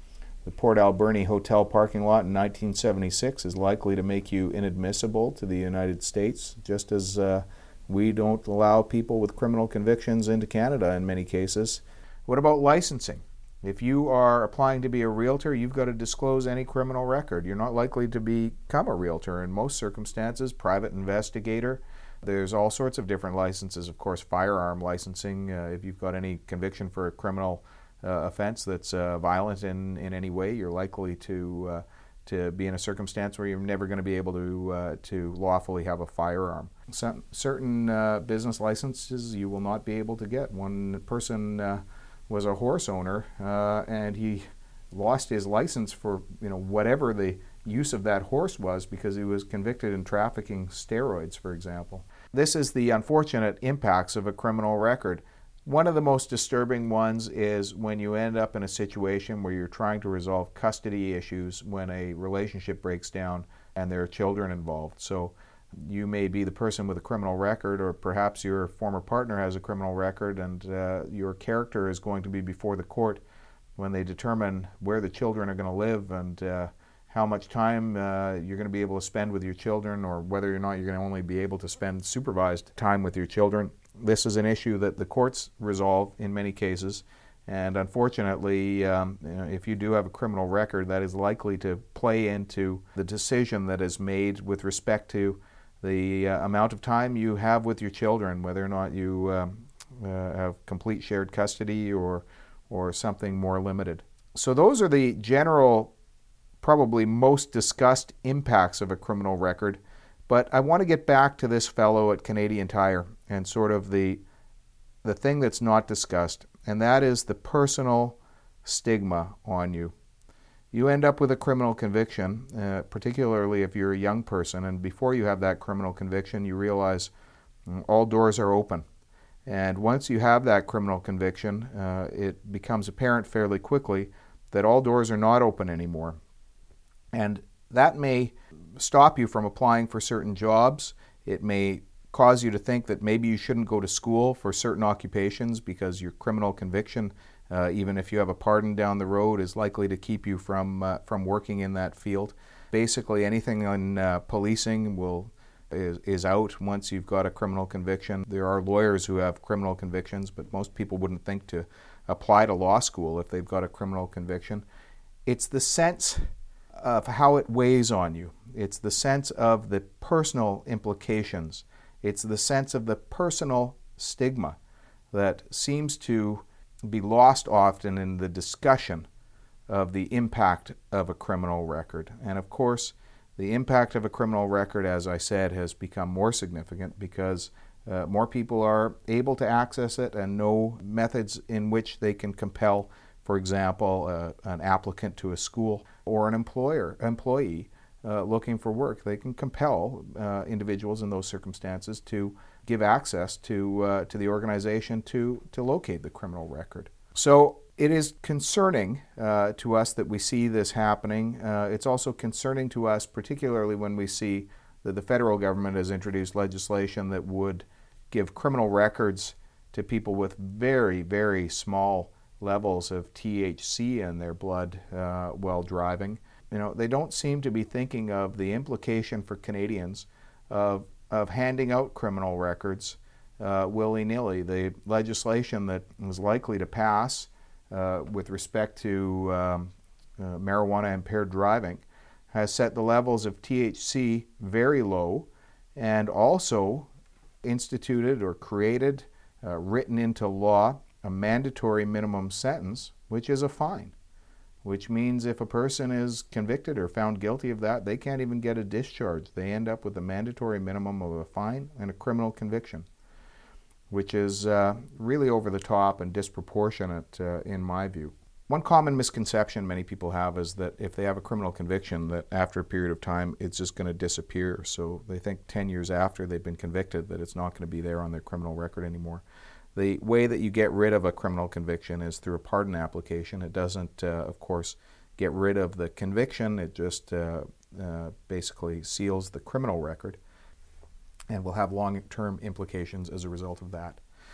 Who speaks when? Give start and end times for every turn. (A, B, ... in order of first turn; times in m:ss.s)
0:00.4-1:13.2 A
1:13.8-1:45.9 A
1:46.6-1:54.2 A
1:55.0-1:59.9 A
2:00.7-2:07.1 A
2:07.7-2:08.8 A
2:09.5-2:16.2 A
2:17.1-2:44.6 A
2:45.3-2:46.2 A
2:46.8-2:54.6 A
2:55.1-2:59.1 A
2:59.7-4:06.9 A
4:07.4-4:14.0 A
4:14.6-4:22.9 A
4:23.9-4:39.2 A
4:39.8-4:50.2 A
4:51.3-4:54.0 A